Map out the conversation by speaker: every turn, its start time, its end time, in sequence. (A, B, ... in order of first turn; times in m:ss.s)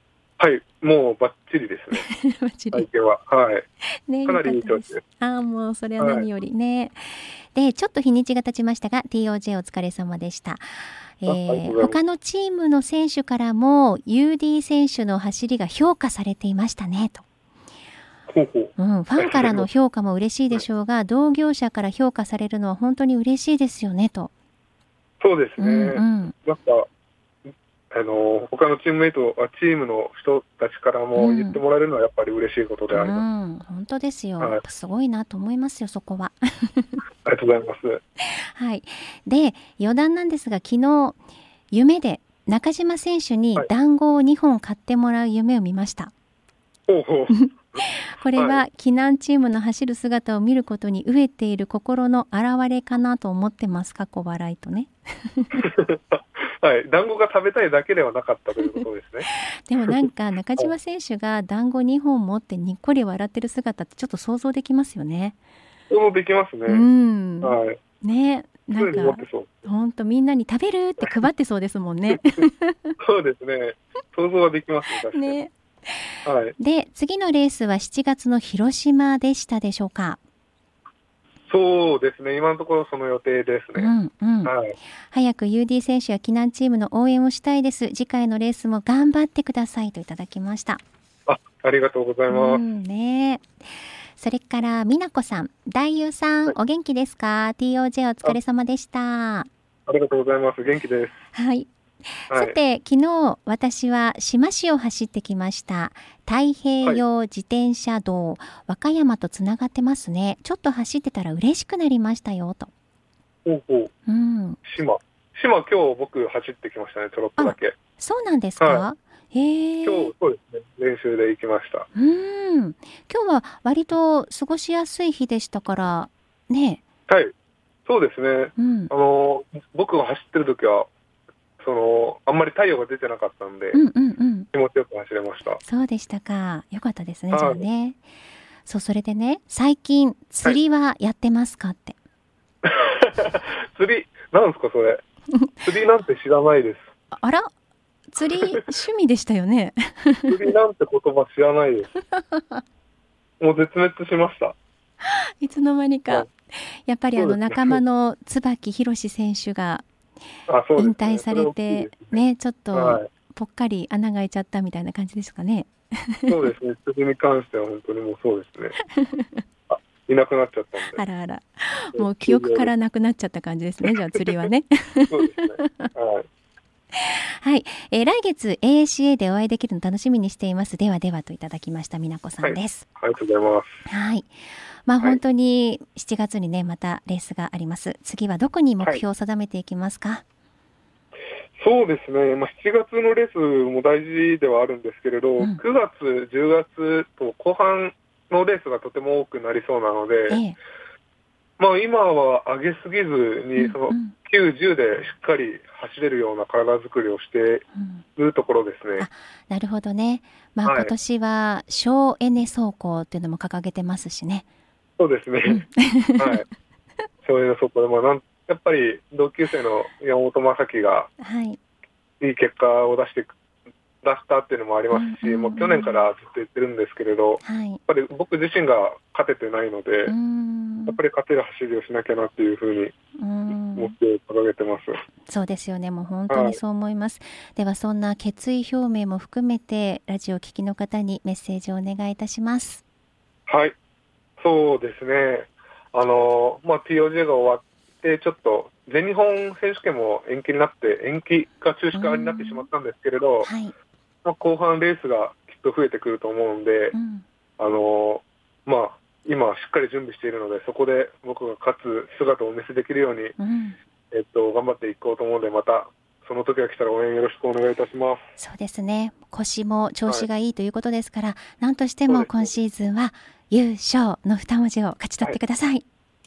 0:00.4-0:02.1 A
0:01.9-0:02.9 B
0:02.7-0:03.7 A
0:04.1-0:10.6 B
0:04.3-0:05.0 A
0:06.0-0:06.3 A
0:11.2-0:17.2 B
0:11.3-0:12.0 A
0:18.3-0:19.7 A
0:18.8-0:24.3 B
0:25.2-0:26.9 A
0:25.6-0:26.3 B
0:27.9-0:33.2 A
0:31.2-0:31.6 B
0:32.9-0:37.0 B
0:37.2-0:38.0 A
0:38.4-0:41.2 B
0:41.7-0:46.1 B
0:46.9-0:47.5 A
0:47.3-0:55.6 B
0:48.4-0:48.6 A
0:55.6-0:59.3 A
0:59.5-1:05.4 B
0:59.8-1:00.1 A
1:05.9-1:06.9 A
1:06.7-1:13.0 B
1:07.4-1:07.8 A
1:08.7-1:09.6 A
1:13.0-1:15.4 A
1:15.1-1:15.5 B
1:16.2-1:16.6 A
1:16.6-1:20.2 B
1:21.5-1:23.9 A
1:23.8-1:24.6 B
1:24.4-1:24.8 A
1:25.1-1:30.8 B
1:31.3-1:32.6 A
1:32.3-1:39.5 B
1:39.9-1:41.2 A
1:41.3-1:52.7 B
1:42.3-1:42.6 A
1:53.5-1:53.9 A
1:54.1-1:54.6 B
1:54.7-1:57.8 A
1:57.4-2:00.1 B
1:58.6-1:58.9 A
1:59.8-2:01.9 A
2:02.0-2:06.8 B
2:07.9-2:10.9 A
2:08.6-2:08.9 B
2:11.6-2:13.8 A
2:13.7-2:14.5 B
2:14.5-2:15.6 A
2:15.6-2:18.0 B
2:17.3-2:17.7 A
2:18.7-2:22.0 B
2:22.6-2:25.0 A
2:25.6-2:26.9 A
2:27.1-2:27.5 B
2:28.1-2:30.4 B
2:30.3-2:31.9 A
2:32.1-2:32.6 B
2:33.4-2:34.6 A
2:35.0-2:39.8 B
2:37.2-2:37.8 A
2:40.5-2:42.2 A
2:40.8-2:46.3 B
2:42.7-2:43.1 A
2:46.3-2:48.8 A
2:48.9-2:49.4 B
2:49.7-2:51.0 A
2:50.9-2:55.9 B
2:52.0-2:52.7 A
2:55.1-2:56.3 A
2:57.0-3:02.9 B
3:02.4-3:03.8 A
3:03.9-3:04.3 B
3:04.9-3:10.2 B
3:11.6-3:20.4 A
3:20.3-3:20.6 B
3:21.6-3:27.6 A
3:23.6-3:24.2 B
3:27.8-3:28.0 B
3:28.2-3:29.1 A
3:29.0-3:34.4 B
3:30.6-3:30.9 A
3:35.0-3:35.7 A
3:35.5-3:36.3 B
3:36.2-3:36.4 A
3:37.2-3:41.1 A
3:41.2-3:41.6 B
3:42.2-3:43.4 A
3:44.0-3:50.2 A
3:44.9-3:46.1 B
3:47.4-3:47.8 B
3:50.1-3:51.0 B
3:50.9-3:52.9 A
3:53.2-3:54.0 B
3:53.8-3:55.0 A
3:55.3-4:02.8 B
3:56.3-3:56.6 A
4:03.5-4:03.8 A
4:04.4-4:13.5 A
4:11.9-4:12.7 B
4:13.4-4:13.7 B
4:14.2-4:17.0 A
4:16.9-4:17.2 B
4:17.6-4:23.4 A
4:23.4-4:23.8 B
4:24.1-4:28.3 A
4:28.4-4:35.8 B
4:32.1-4:32.6 A